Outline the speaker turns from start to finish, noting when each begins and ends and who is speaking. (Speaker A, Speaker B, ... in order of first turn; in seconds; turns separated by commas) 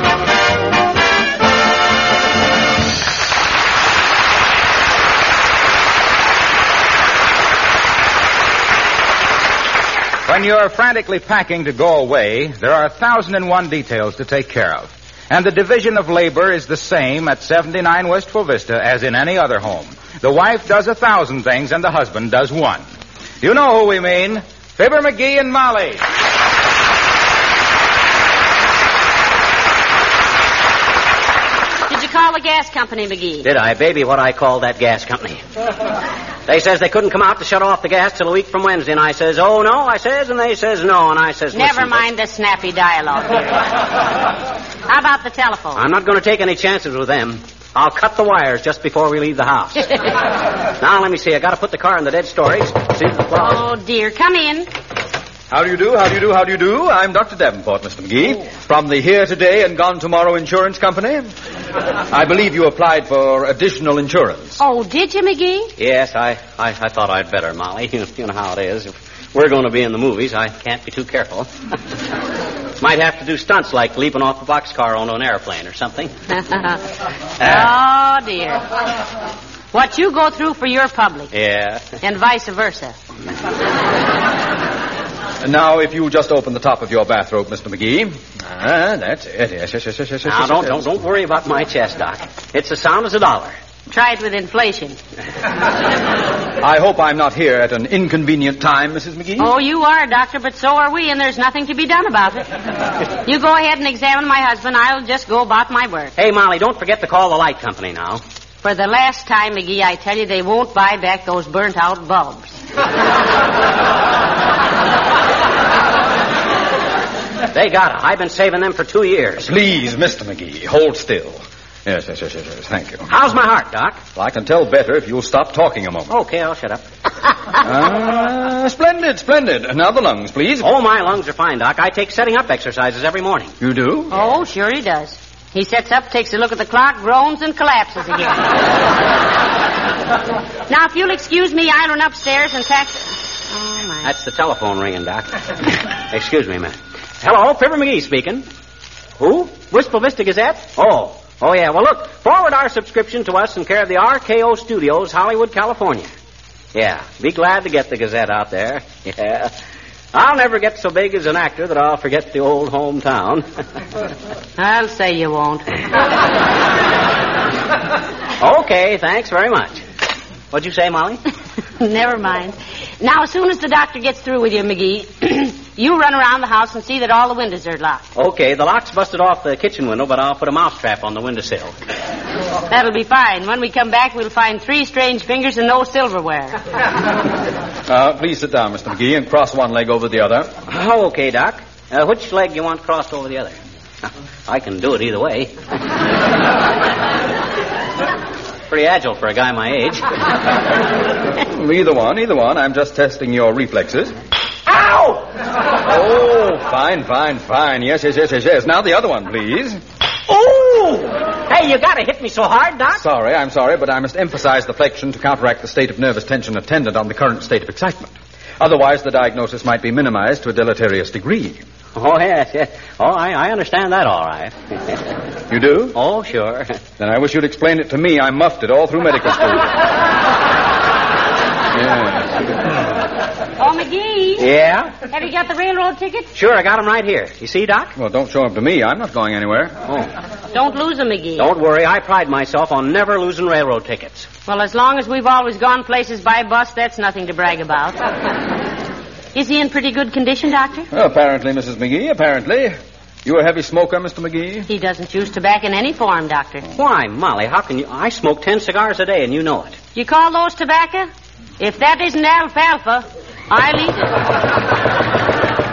Speaker A: 10.3-22.8, Speaker A: 23.4-26.0, Speaker B: 31.9-33.5, Speaker C: 33.4-35.4, Speaker C: 36.5-42.0, Speaker B: 41.5-43.8, Speaker B: 44.9-45.8, Speaker C: 45.7-50.1, Speaker C: 50.8-53.6, Speaker B: 53.4-54.7, Speaker D: 55.5-61.3, Speaker D: 62.1-64.6, Speaker B: 64.6-65.7, Speaker C: 65.8-71.5, Speaker C: 72.8-76.1, Speaker B: 76.4-76.8, Speaker B: 77.4-78.6, Speaker C: 77.4-77.7, Speaker B: 79.7-81.3, Speaker C: 81.3-81.9, Speaker B: 82.0-83.0, Speaker D: 85.4-90.9, Speaker C: 90.2-93.5, Speaker B: 93.9-95.0, Speaker D: 96.6-99.5, Speaker B: 99.4-102.5, Speaker B: 103.2-106.1, Speaker C: 106.2-108.2, Speaker B: 108.6-112.6, Speaker C: 117.5-119.5, Speaker D: 119.4-123.1, Speaker C: 123.1-124.0, Speaker D: 124.1-126.1, Speaker C: 126.1-126.8, Speaker D: 127.6-130.7, Speaker C: 130.6-133.5, Speaker D: 133.6-134.1, Speaker B: 134.1-138.5, Speaker B: 140.7-144.1, Speaker C: 144.0-148.4, Speaker C: 149.2-156.1, Speaker C: 156.7-159.5, Speaker C: 160.1-163.4, Speaker B: 164.6-165.6, Speaker C: 168.4-169.8, Speaker C: 170.5-171.2, Speaker B: 171.8-178.0, Speaker C: 178.1-181.7, Speaker B: 182.7-186.6, Speaker D: 187.9-190.5, Speaker C: 190.7-193.6, Speaker C: 194.5-195.6, Speaker C: 198.7-200.1, Speaker D: 201.5-204.1, Speaker C: 204.7-205.2, Speaker D: 205.8-209.8, Speaker C: 210.3-213.0, Speaker D: 212.9-221.6, Speaker C: 221.9-225.0, Speaker D: 225.5-225.9, Speaker C: 225.9-226.8, Speaker D: 227.0-229.7, Speaker D: 231.7-232.3, Speaker B: 233.6-234.5, Speaker C: 234.4-234.9, Speaker B: 235.1-236.3, Speaker C: 236.3-237.9, Speaker D: 237.9-239.7, Speaker B: 240.5-241.5, Speaker C: 241.4-244.3, Speaker B: 244.4-248.0, Speaker B: 249.3-250.9, Speaker D: 250.9-254.7, Speaker B: 254.7-256.6, Speaker C: 256.8-259.8, Speaker B: 259.9-261.1, Speaker B: 261.6-264.2